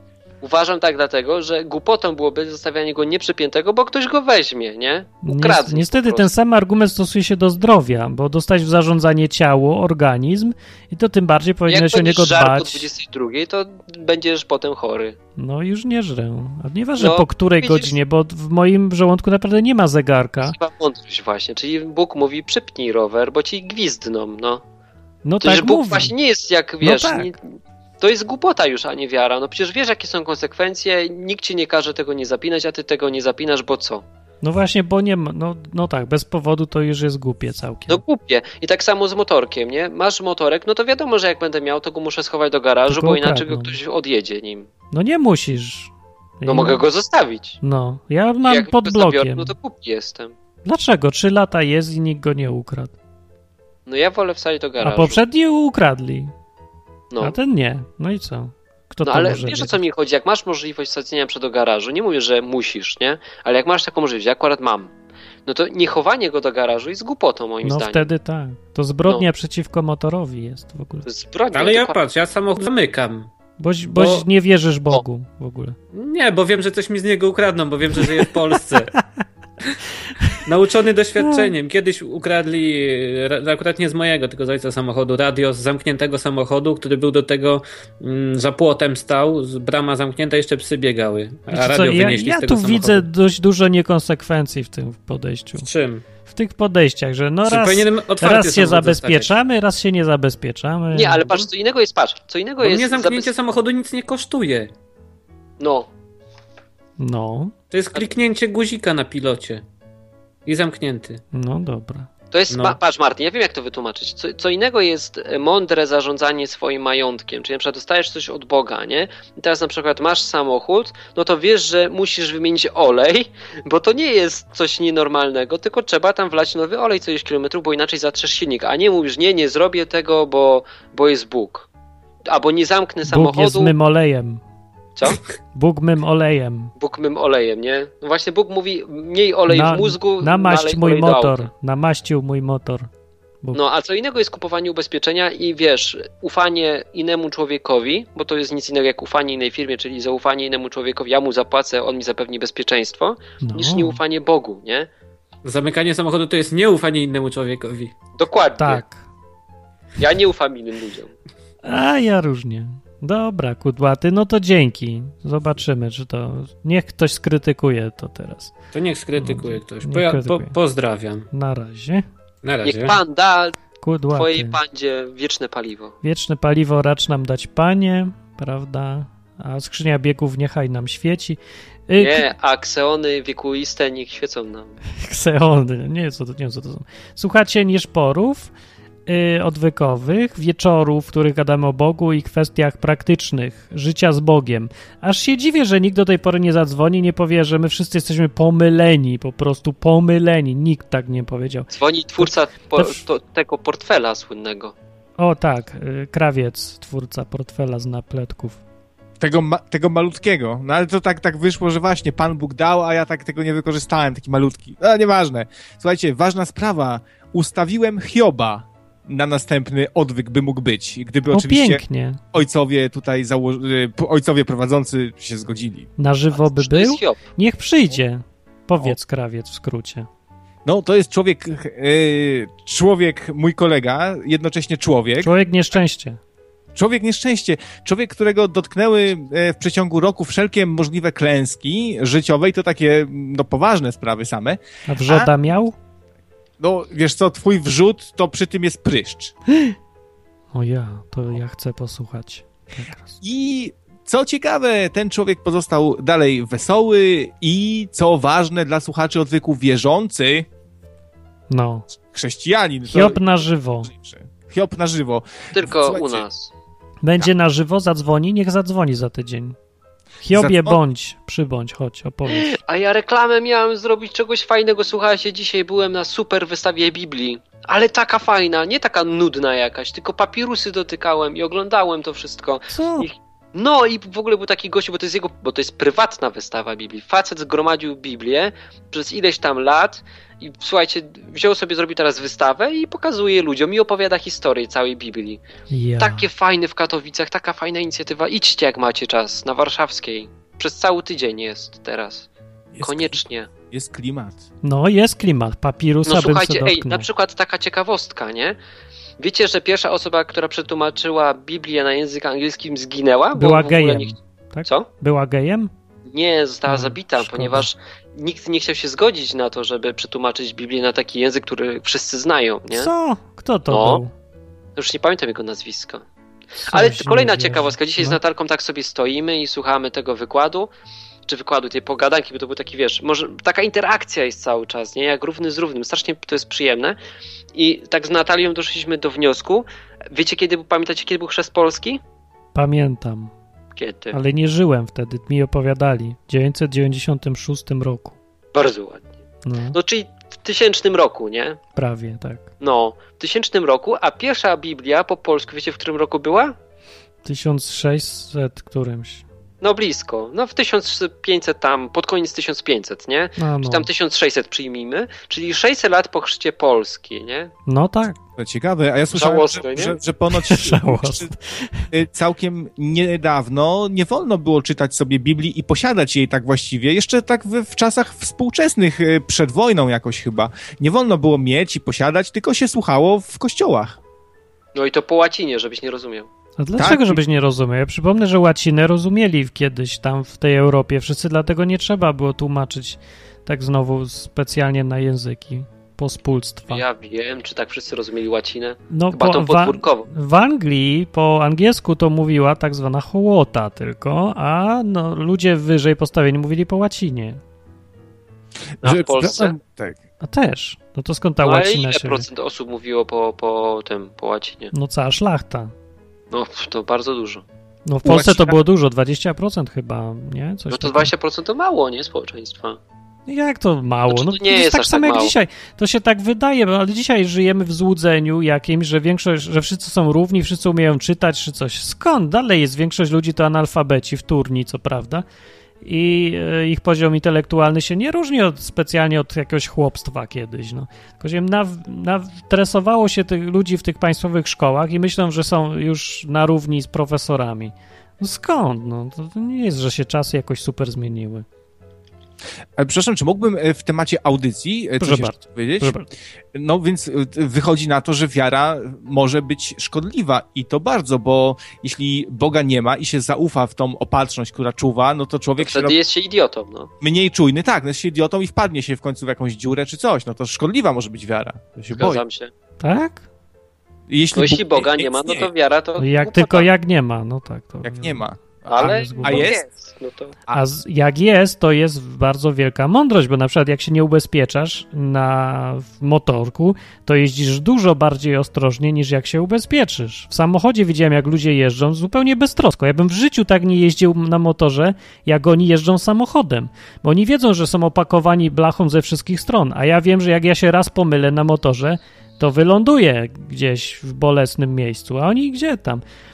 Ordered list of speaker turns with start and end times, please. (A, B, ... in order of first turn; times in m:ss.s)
0:00.4-0:06.3 A
0:05.2-0:12.9 B
0:11.7-0:15.2 A
0:15.4-0:20.6 B
0:17.0-0:18.0 A
0:20.4-0:24.6 A
0:25.2-0:26.1 B
0:25.4-0:27.4 A
0:26.8-0:27.3 B
0:28.0-0:34.0 A
0:34.4-0:38.0 B
0:37.9-0:44.7 A
0:42.9-0:43.8 B
0:44.9-0:46.8 B
0:46.5-0:47.6 A
0:47.6-0:49.6 B
0:48.5-0:50.3 A
0:50.6-0:52.9 B
0:53.9-0:55.2 A
0:54.8-0:56.3 B
0:57.1-0:57.4 A
0:57.2-0:59.8 B
0:59.0-1:04.9 A
1:05.5-1:08.1 A
1:07.6-1:11.1 B
1:11.1-1:12.0 A
1:11.5-1:13.3 C
1:13.6-1:15.8 B
1:13.9-1:14.2 C
1:15.9-1:18.9 C
1:20.5-1:33.0 C
1:21.2-1:21.5 B
1:31.5-1:35.7 B
1:35.6-1:36.0 C
1:36.3-1:41.3 B
1:37.4-1:39.3 C
1:40.9-1:43.3 A
1:42.6-1:44.7 C
1:45.6-1:45.9 A
1:47.0-1:47.5 B
1:47.7-1:49.6 C
1:50.5-1:51.2 C
1:51.3-1:52.1 B
1:52.3-2:11.7 A
1:52.5-1:52.8 C
2:12.3-2:13.7 A
2:13.1-2:14.4 B
2:15.0-2:15.2 A
2:15.5-2:16.7 B
2:16.8-2:21.5 A
2:19.5-2:22.9 B
2:23.5-2:34.9 A
2:33.4-2:34.0 B
2:35.4-2:37.9 C
2:38.2-2:38.8 A
2:38.6-2:39.0 B
2:40.0-2:41.1 A
2:41.6-2:48.5 B
2:48.7-2:51.3 C
2:49.2-2:50.6 B
2:51.3-2:52.0 B
2:52.4-2:53.0 C
2:52.6-2:53.6 A
2:53.8-2:54.6 B
2:54.1-2:56.0 A
2:56.0-3:02.3 B
3:02.0-3:04.8 A
3:05.0-3:08.5 B
3:09.1-3:23.0 B
3:21.7-3:24.7 A
3:25.2-3:28.6 B
3:29.2-3:45.9 D
3:41.3-3:42.2 B
3:46.0-3:50.1 B
3:46.3-3:47.2 A
3:50.6-3:55.3 D
3:55.2-3:56.2 B
3:56.8-4:05.3 D
4:04.9-4:05.8 B
4:06.6-4:09.3 D
4:10.5-4:13.2 B
4:13.2-4:20.5 D
4:21.5-4:21.8 B
4:22.0-4:26.2 D
4:22.9-4:23.9 B
4:25.5-4:26.5 A
4:27.0-4:29.6 B
4:30.2-4:32.6 B
4:30.3-4:30.8 D
4:32.3-4:55.4 A
4:42.7-4:43.1 B
4:55.7-4:56.3 B
4:56.0-5:02.3 A
5:02.7-5:03.2 D
5:02.8-5:03.5 A
5:03.7-5:04.4 D
5:04.6-5:07.1 B
5:06.1-5:08.6 A
5:09.2-5:14.1 A
5:13.4-5:15.7 B
5:16.1-5:22.9 A
5:16.7-5:17.7 B
5:22.7-5:24.1 B
5:23.7-5:24.0 A
5:24.8-5:26.0 A
5:26.7-5:28.2 B
5:26.7-5:30.7 A
5:31.3-5:37.0 A
5:37.6-5:42.0 A
5:42.6-5:43.3 B
5:43.8-5:44.2 A
5:44.1-5:48.2 B
5:48.5-5:49.1 A
5:49.4-5:49.8 B
5:49.7-5:51.6 A
5:51.8-5:52.5 B
5:52.6-5:56.5 A
5:57.2-5:59.2 B
5:59.6-6:07.5 A
6:03.4-6:03.9 B
6:07.7-6:08.2 B
6:08.4-6:11.3 D
6:09.1-6:10.0 A
6:10.4-6:11.9 B
6:11.9-6:24.0 D
6:24.8-6:26.3 A
6:26.6-6:36.8 B
6:26.8-6:27.2 D
6:36.7-6:40.1 A
6:38.9-6:47.4 B
6:48.8-6:50.0 D
6:48.8-6:49.6 A
6:50.2-6:52.3 B
6:51.4-6:54.7 A
6:54.7-6:55.7 B
6:56.3-6:57.4 A
6:57.9-7:01.1 B
6:58.0-6:58.6 D
7:00.7-7:02.8 A
7:03.3-7:15.2 B
7:04.1-7:05.3 A
7:15.8-7:31.4 B
7:32.8-7:36.0 D
7:35.0-7:36.1 B
7:36.5-7:46.0 D
7:45.6-7:46.9 A
7:47.0-7:52.2 D
7:51.9-7:52.5 A
7:52.8-7:53.2 B
7:54.1-7:55.5 D
7:54.3-7:56.7 A
7:56.0-7:59.5 B
7:57.8-7:59.6 D
7:58.7-8:00.4 A
8:00.5-8:26.0 B